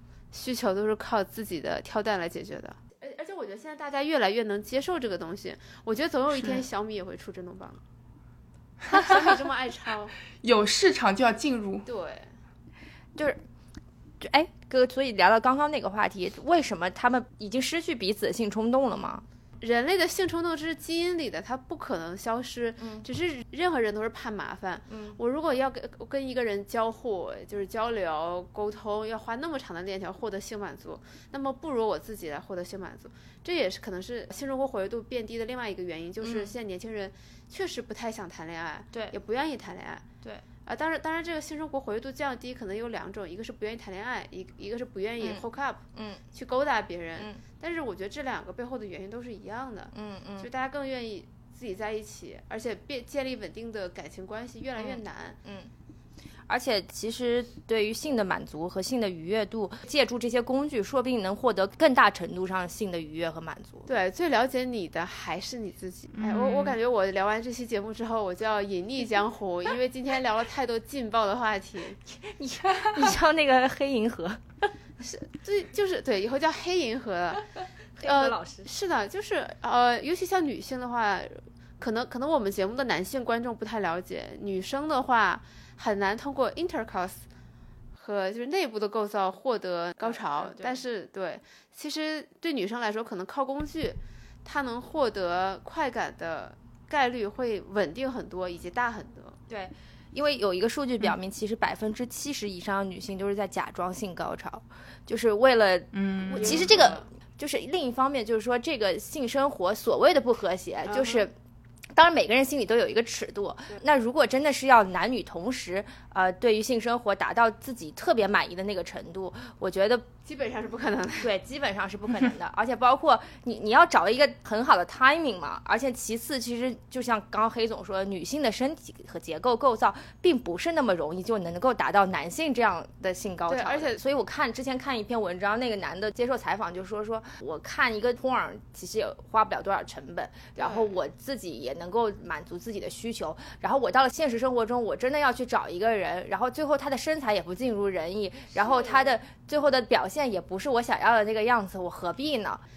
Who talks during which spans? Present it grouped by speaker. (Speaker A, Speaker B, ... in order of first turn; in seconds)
Speaker A: 0.3-7.8, 8.9-10.2, 11.8-12.3, 19.6-40.0, 40.6-45.8, 46.3-55.4, 63.9-72.0, 75.0-77.5, 78.0-87.2, 87.9-99.4, 106.4-107.1, 110.9-111.3, 120.2-121.3, 133.5-134.0, 140.6-140.9, 148.5-149.2
Speaker B: 6.3-6.6, 10.4-11.9, 66.1-66.8, 105.9-106.9
Speaker C: 13.2-13.4, 14.2-19.2, 22.8-23.1, 24.9-25.2, 36.2-36.5, 45.2-46.2, 47.2-47.4, 49.9-50.5, 54.8-55.7, 56.5-63.9, 72.1-74.7, 78.0-78.7, 90.0-90.8, 99.5-111.3, 111.9-120.1, 121.2-152.6